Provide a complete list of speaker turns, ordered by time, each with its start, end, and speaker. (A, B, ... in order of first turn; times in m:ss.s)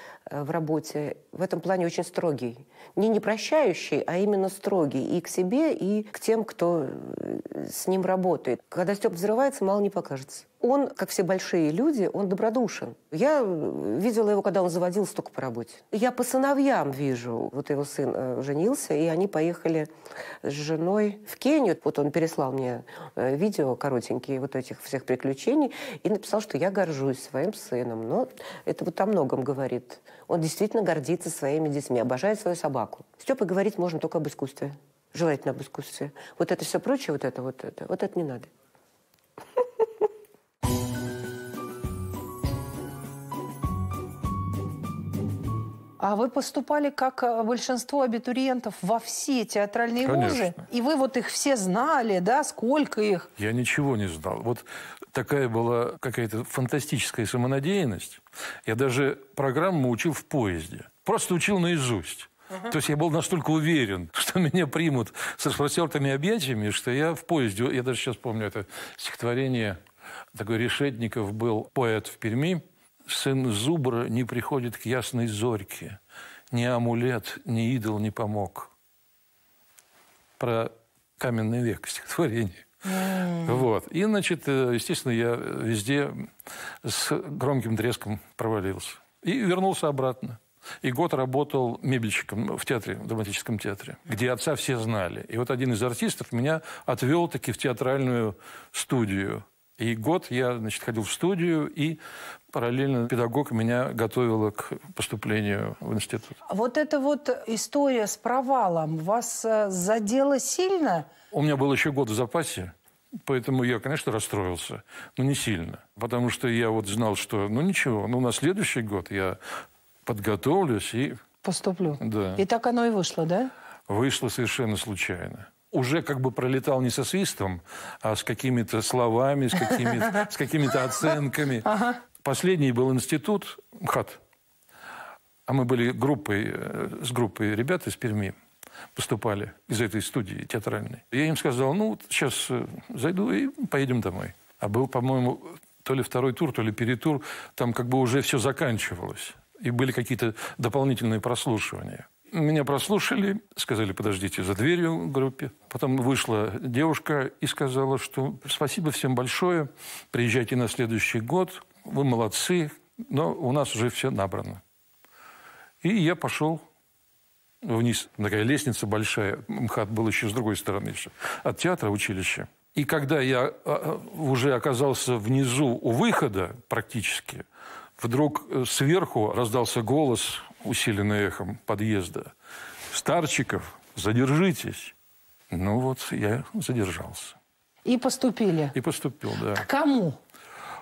0:00.3-0:19.9 A
0:20.4-0:38.5 A
0:46.0-0:53.3 B
0:50.0-0:50.6 C
0:53.4-1:09.8 C
1:10.3-1:16.0 C
1:16.5-1:18.7 C
1:20.4-1:22.7 C
1:22.8-1:23.6 B
1:23.4-1:26.3 C
1:26.8-1:42.0 C
1:42.5-1:46.4 C
1:46.5-1:51.1 B
1:51.3-1:59.4 C
2:00.0-2:01.2 C
2:01.4-2:03.5 B
2:02.0-2:02.4 C
2:03.9-2:14.2 C
2:09.7-2:10.1 B
2:11.6-2:12.0 B
2:15.4-2:18.4 C
2:19.0-2:44.6 C
2:45.8-2:46.6 C
2:47.6-2:57.4 C
2:58.0-3:02.3 C
3:02.9-3:04.9 C
3:05.5-3:07.4 C
3:07.8-3:08.7 B
3:08.7-3:09.6 C
3:09.5-3:10.2 B